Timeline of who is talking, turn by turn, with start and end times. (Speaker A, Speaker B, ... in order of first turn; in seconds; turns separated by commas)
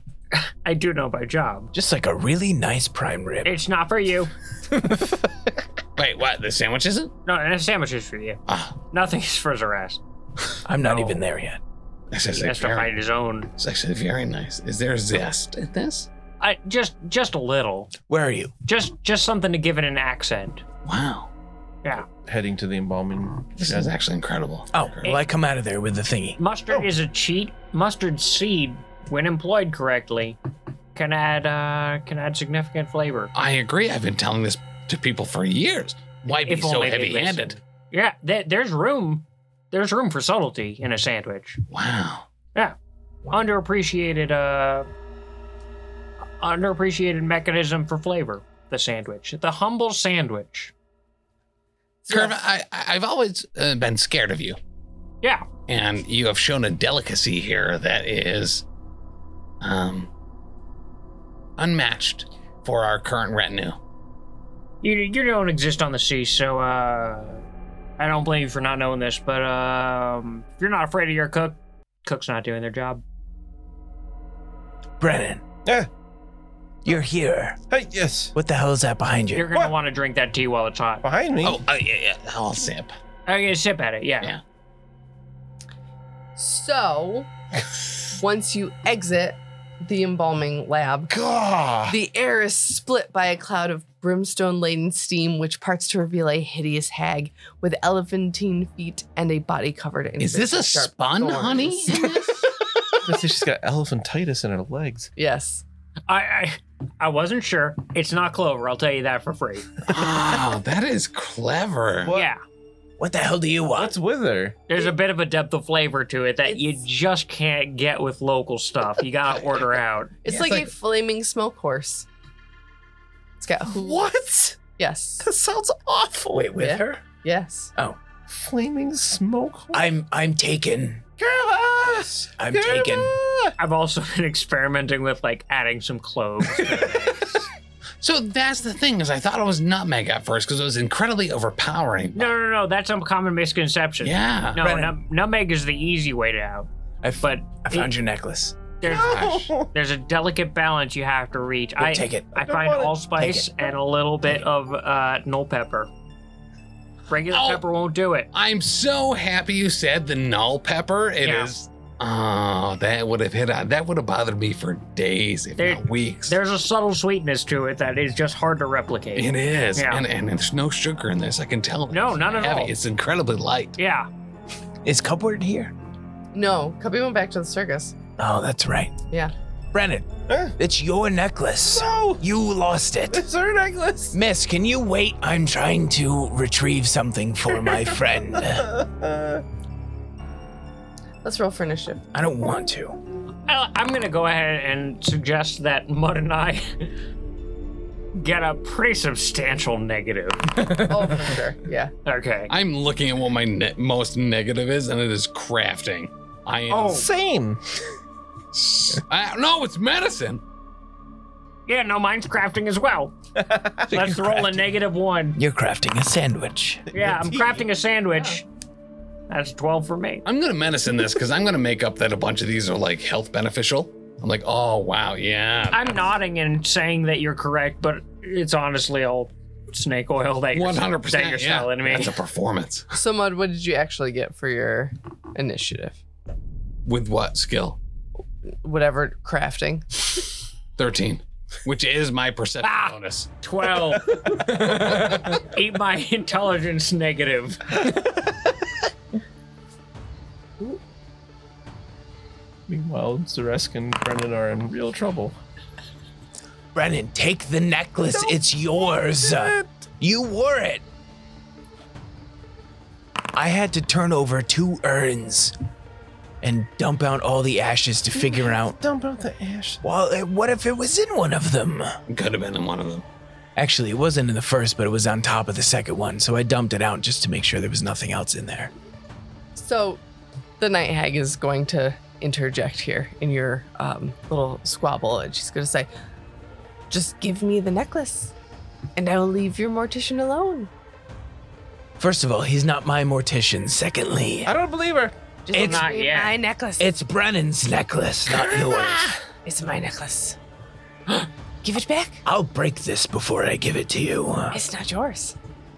Speaker A: 0.3-1.7, Speaker B: 1.7-3.6, Speaker A: 3.4-4.3, Speaker B: 4.7-5.2, Speaker C: 6.0-7.1, Speaker A: 7.2-8.4, Speaker C: 8.5-8.8, Speaker A: 8.9-10.0, Speaker B: 10.6-11.6, Speaker A: 10.8-11.2, Speaker C: 12.1-12.9, Speaker A: 12.3-13.5, Speaker C: 13.6-16.1, Speaker A: 16.4-17.9, Speaker B: 18.1-18.5, Speaker A: 18.6-20.6, Speaker C: 20.8-21.3, Speaker D: 22.2-23.9, Speaker C: 23.6-25.0, Speaker B: 24.7-26.4, Speaker A: 26.4-30.4, Speaker A: 30.9-33.3, Speaker C: 33.3-37.6, Speaker A: 36.3-41.6, Speaker C: 41.7-42.2, Speaker A: 43.3-44.9, Speaker A: 46.4-50.7, Speaker E: 52.0-52.4, Speaker C: 52.1-54.6, Speaker A: 55.2-55.5, Speaker C: 55.7-58.6, Speaker C: 59.6-60.1, Speaker C: 61.6-63.8, Speaker A: 64.8-67.4, Speaker A: 68.0-73.0, Speaker B: 75.0-75.4, Speaker B: 76.8-77.6, Speaker D: 77.7-78.3, Speaker B: 78.3-79.5, Speaker A: 79.3-81.0, Speaker D: 81.0-81.6, Speaker C: 81.4-82.9, Speaker A: 83.3-84.3, Speaker E: 86.3-87.3, Speaker E: 88.1-91.1, Speaker D: 91.1-92.0, Speaker E: 91.9-102.3, Speaker C: 100.2-102.3, Speaker D: 103.0-105.1, Speaker E: 105.2-105.6, Speaker A: 106.1-109.8, Speaker C: 109.9-112.1, Speaker D: 112.0-112.3, Speaker A: 112.1-112.4, Speaker B: 113.0-113.9, Speaker D: 113.7-114.6, Speaker A: 114.7-120.2, Speaker C: 119.3-119.7, Speaker E: 120.2-122.1, Speaker C: 120.3-120.7, Speaker E: 123.4-124.1, Speaker D: 123.7-124.6, Speaker E: 124.8-125.3, Speaker D: 125.2-126.4, Speaker B: 126.3-127.0, Speaker E: 126.5-127.7, Speaker D: 128.3-129.8, Speaker B: 129.7-131.0, Speaker D: 131.2-133.5, Speaker B: 132.3-133.1, Speaker A: 133.6-137.4, Speaker C: 138.0-142.3, Speaker A: 142.1-146.7, Speaker C: 144.0-144.6, Speaker B: 144.6-144.9, Speaker B: 147.0-148.6, Speaker A: 147.2-147.9, Speaker A: 148.8-155.9, Speaker D: 148.8-149.7, Speaker C: 148.9-149.5, Speaker B: 151.8-152.3, Speaker D: 152.3-153.0, Speaker B: 153.2-153.5, Speaker A: 157.1-158.3, Speaker C: 157.3-157.6, Speaker C: 158.3-166.4, Speaker A: 161.2-161.5, Speaker A: 165.6-170.0, Speaker C: 169.2-173.8, Speaker A: 171.9-172.7, Speaker A: 173.8-174.1, Speaker B: 174.8-175.7, Speaker E: 176.3-177.9, Speaker B: 178.2-179.0, Speaker B: 179.7-183.2, Speaker D: 180.3-180.5, Speaker D: 181.7-182.2, Speaker D: 183.1-184.2, Speaker B: 184.1-188.7, Speaker D: 188.4-189.4, Speaker E: 191.2-192.0, Speaker B: 192.1-193.0, Speaker A: 193.5-196.9, Speaker A: 198.1-200.6, Speaker E: 200.7-201.9, Speaker A: 202.0-202.5, Speaker C: 202.5-207.1, Speaker D: 206.7-207.6, Speaker A: 206.7-207.0, Speaker C: 208.5-210.4, Speaker A: 211.7-213.1, Speaker D: 213.4-214.6, Speaker A: 213.9-215.4, Speaker B: 215.3-216.9, Speaker D: 216.9-217.6, Speaker A: 216.9-218.4, Speaker A: 219.3-220.2, Speaker C: 220.2-226.0, Speaker A: 225.7-232.1, Speaker C: 230.5-232.9, Speaker E: 232.9-236.0, Speaker C: 236.8-237.8, Speaker E: 238.6-239.9, Speaker C: 240.8-243.3, Speaker A: 242.6-247.9, Speaker C: 244.4-245.1, Speaker D: 252.7-255.4, Speaker B: 256.7-260.8, Speaker D: 259.2-259.7, Speaker B: 263.3-265.5, Speaker B: 266.4-268.8, Speaker D: 268.2-269.8, Speaker B: 269.8-271.9, Speaker C: 272.1-273.1, Speaker B: 273.6-278.7, Speaker E: 279.6-280.0, Speaker E: 280.6-285.9, Speaker E: 286.9-288.3, Speaker E: 288.9-290.7, Speaker B: 292.0-294.5, Speaker D: 294.4-295.1, Speaker E: 295.4-296.9, Speaker B: 295.5-295.9, Speaker A: 295.5-296.4, Speaker B: 296.8-299.1, Speaker E: 299.4-300.4, Speaker E: 301.6-302.2, Speaker B: 302.2-304.6, Speaker E: 304.5-305.4